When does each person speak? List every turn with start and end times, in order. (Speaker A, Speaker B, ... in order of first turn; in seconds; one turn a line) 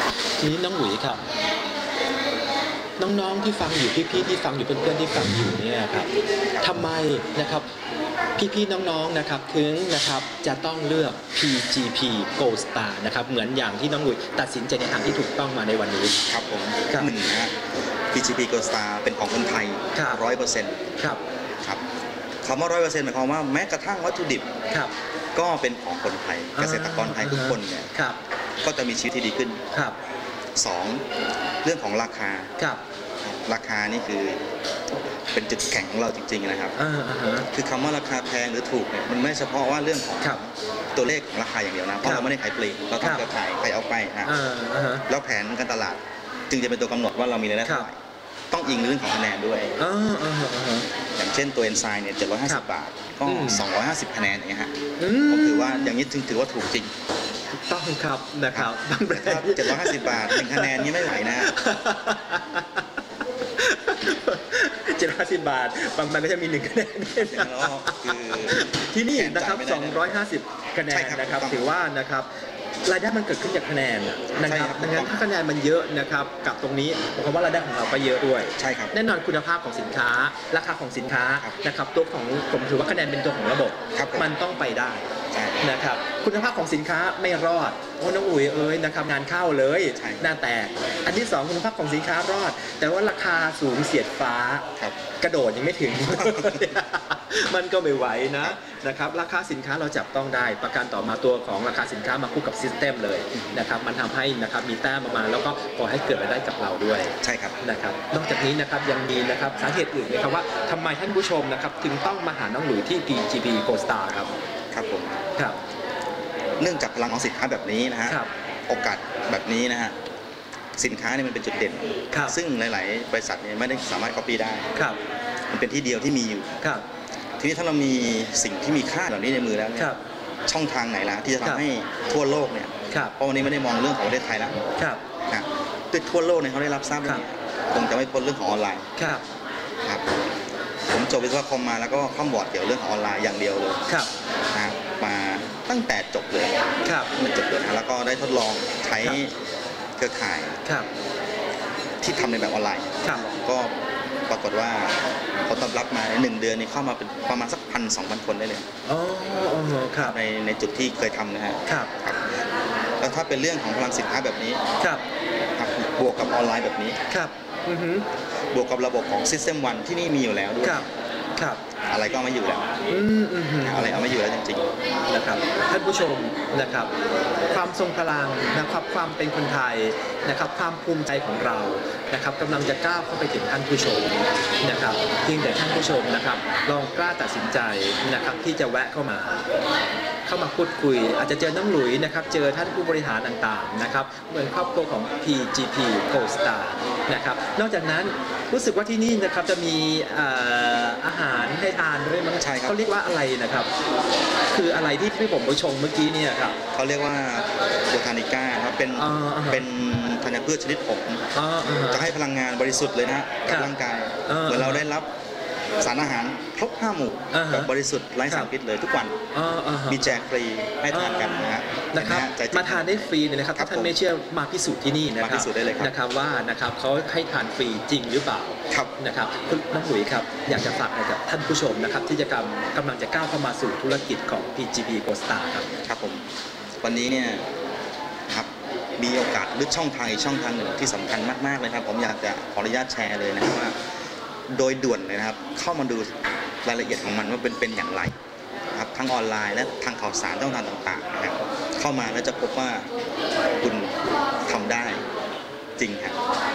Speaker A: 0.4-1.2
Speaker A: 3.0-6.1
Speaker A: 6.6-7.7
Speaker A: 8.3-16.2
Speaker B: 16.3-17.6
Speaker B: 18.1-20.8
Speaker A: 19.9-20.2
Speaker B: 22.4-24.5
Speaker B: 25.3-27.9
Speaker A: 26.6-28.2
Speaker B: 28.6-29.6
Speaker A: 29.7-30.0
Speaker B: 30.6-31.0
Speaker B: 31.6-32.5
Speaker B: 33.2-34.4
Speaker B: 35.3-36.7
Speaker A: 36.8-37.5
Speaker B: 37.5-44.3
Speaker A: 42.0-42.3
Speaker A: 43.0-43.3
Speaker A: 44.2-45.0
Speaker B: 45.1-48.0
Speaker B: 48.5-49.7
Speaker A: 49.8-50.9
Speaker B: 51.2-54.7
Speaker A: 53.2-53.6
Speaker A: 55.0-55.9
Speaker B: 55.3-56.9
Speaker A: 57.5-62.9
Speaker B: 58.5-61.5
Speaker A: 63.6-72.3
Speaker B: 67.2-70.1
Speaker B: 70.9-71.7
Speaker A: 72.8-85.1
Speaker B: 74.4-75.2
Speaker B: 78.6-78.9
Speaker B: 83.9-84.3
Speaker B: 85.3-85.7
Speaker A: 85.6-94.7
Speaker B: 90.0-90.3
Speaker A: 95.2-114.3
Speaker B: 96.2-96.7
Speaker B: 107.2-107.6
Speaker B: 114.7-115.2
Speaker B: 116.6-120.0
Speaker B: 120.8-124.7
Speaker A: 122.1-122.4
Speaker A: 124.7-125.0
Speaker B: 125.5-126.5
Speaker B: 127.4-129.9
Speaker B: 130.5-134.6
Speaker A: 132.9-133.1
Speaker A: 134.8-135.0
Speaker B: 135.3-138.9
Speaker A: 139.0-139.2
Speaker B: 139.8-140.2
Speaker B: 140.9-143.8
Speaker A: 143.9-144.1
Speaker B: 144.5-146.6
Speaker A: 146.8-147.1
Speaker B: 147.1-149.3
Speaker B: 150.0-150.6
Speaker B: 152.0-153.8
Speaker B: 154.3-158.7
Speaker A: 158.8-160.2
Speaker B: 159.9-162.3
Speaker A: 161.7-161.9
Speaker B: 163.0-164.6
Speaker B: 165.6-167.0
Speaker A: 167.1-168.1
Speaker B: 168.5-170.8
Speaker A: 170.6-171.6
Speaker B: 171.9-172.7
Speaker A: 172.9-174.0
Speaker B: 173.6-174.7
Speaker A: 175.1-176.9
Speaker A: 177.5-189.4
Speaker A: 190.2-203.7
Speaker B: 202.4-202.8
Speaker A: 204.5-206.6
Speaker B: 206.7-215.1
Speaker A: 209.0-209.6
Speaker A: 211.3-212.1
Speaker A: 214.3-214.8
Speaker B: 215.8-219.2
Speaker A: 217.3-217.7
Speaker A: 219.3-220.1
Speaker B: 219.9-223.9
Speaker A: 220.9-235.7
Speaker B: 225.2-225.9
Speaker B: 235.8-236.2
Speaker B: 236.8-237.5
Speaker B: 238.3-243.8
Speaker B: 244.5-248.1
Speaker B: 248.7-252.9
Speaker B: 253.6-255.0
Speaker B: 255.8-256.1